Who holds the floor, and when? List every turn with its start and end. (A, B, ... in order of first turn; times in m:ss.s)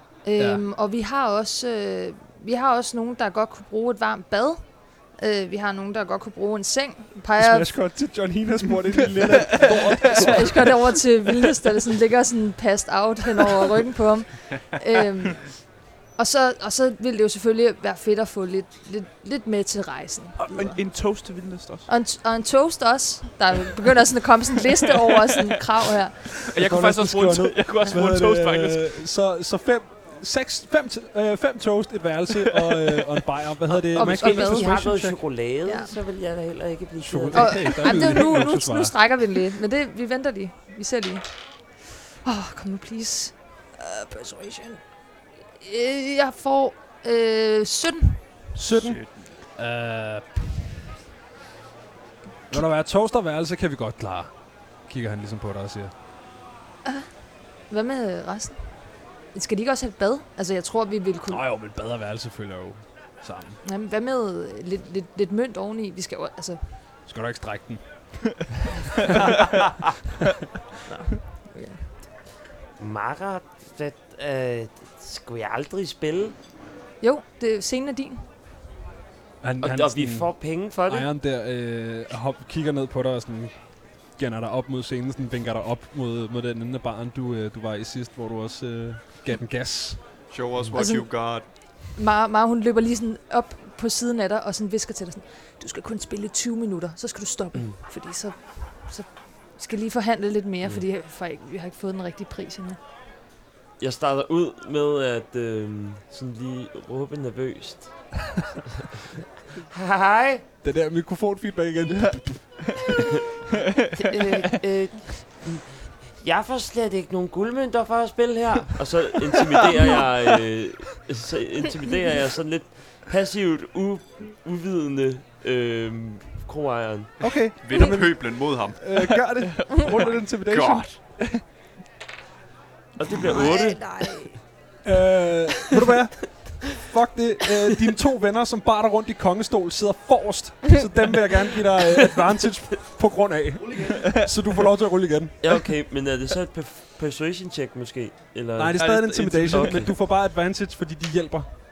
0:00.2-0:07.9 A
0:00.4-0:00.6 B
0:07.4-0:11.0 B
0:10.1-0:20.8 A
0:20.4-0:21.9 C
0:21.9-0:26.4 A
0:26.4-0:29.0 C
0:26.5-0:35.2 B
0:33.8-0:34.9 A
0:34.0-0:38.1 D
0:35.6-0:36.0 A
0:37.0-0:39.0 B
0:37.3-0:44.9 A
0:45.6-0:48.2 A
0:48.6-0:49.0 B
0:48.7-0:49.2 E
0:49.6-0:50.5 B
0:52.5-0:55.9 B
0:56.8-0:57.1 A
0:57.7-1:01.4 A
1:01.3-1:03.6 B
1:03.6-1:06.8 A
1:07.1-1:08.5 B
1:10.9-1:12.0 A
1:12.8-1:16.4 D
1:17.0-1:18.3 A
1:19.4-1:30.0 B
1:19.6-1:21.1 D
1:30.3-1:31.4 E
1:30.8-1:42.8 A
1:43.8-1:48.1 D
1:49.7-1:50.4 D
1:50.6-1:52.7 B
1:53.8-1:54.1 C
1:54.0-1:55.2 A
1:55.3-2:07.2 D
2:07.2-2:11.0 B
2:07.6-2:09.2 E
2:09.9-2:11.0 E
2:13.0-2:14.4 D
2:13.3-2:14.3 A
2:14.8-2:25.6 B
2:25.4-2:28.9 D
2:28.6-2:31.5 B
2:28.8-2:29.8 C
2:29.5-2:29.9 D